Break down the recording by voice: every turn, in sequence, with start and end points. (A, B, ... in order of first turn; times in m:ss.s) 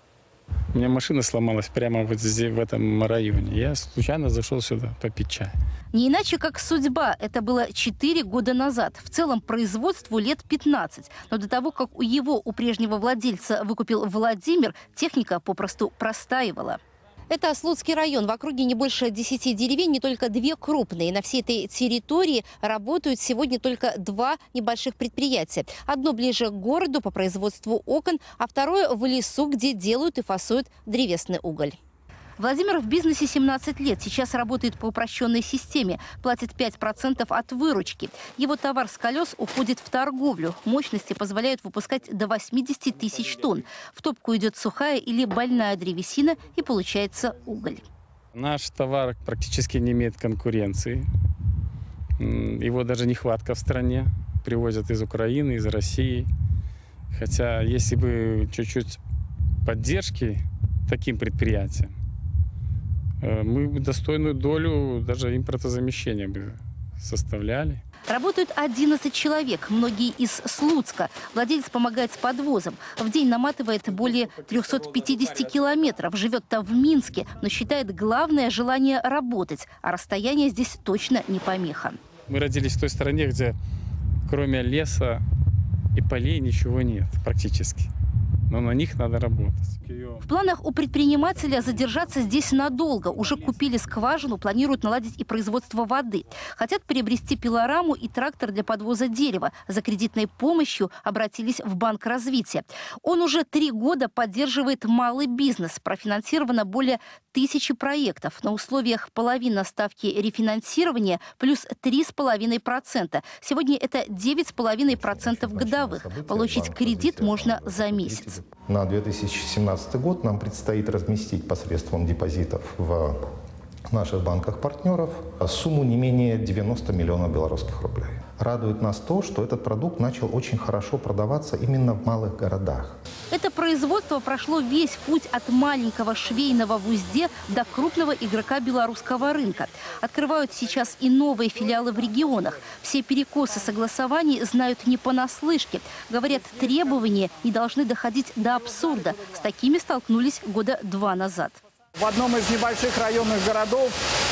0:00.7-0:05.5 A
0:05.9-0:31.8 B
0:32.4-0:47.8 B
0:48.3-0:51.1 A
0:52.2-0:56.3 A
0:57.1-0:59.0 A
0:59.6-1:01.9 A
1:03.2-1:07.8 A
1:08.1-1:22.0 B
1:22.3-1:23.6 A
1:24.3-1:25.2 A
1:25.9-1:27.9 A
1:28.5-1:30.2 A
1:30.2-1:58.4 B
1:54.9-2:03.2 C
2:03.9-2:13.0 C
2:13.3-2:31.6 B
2:32.0-2:33.9 D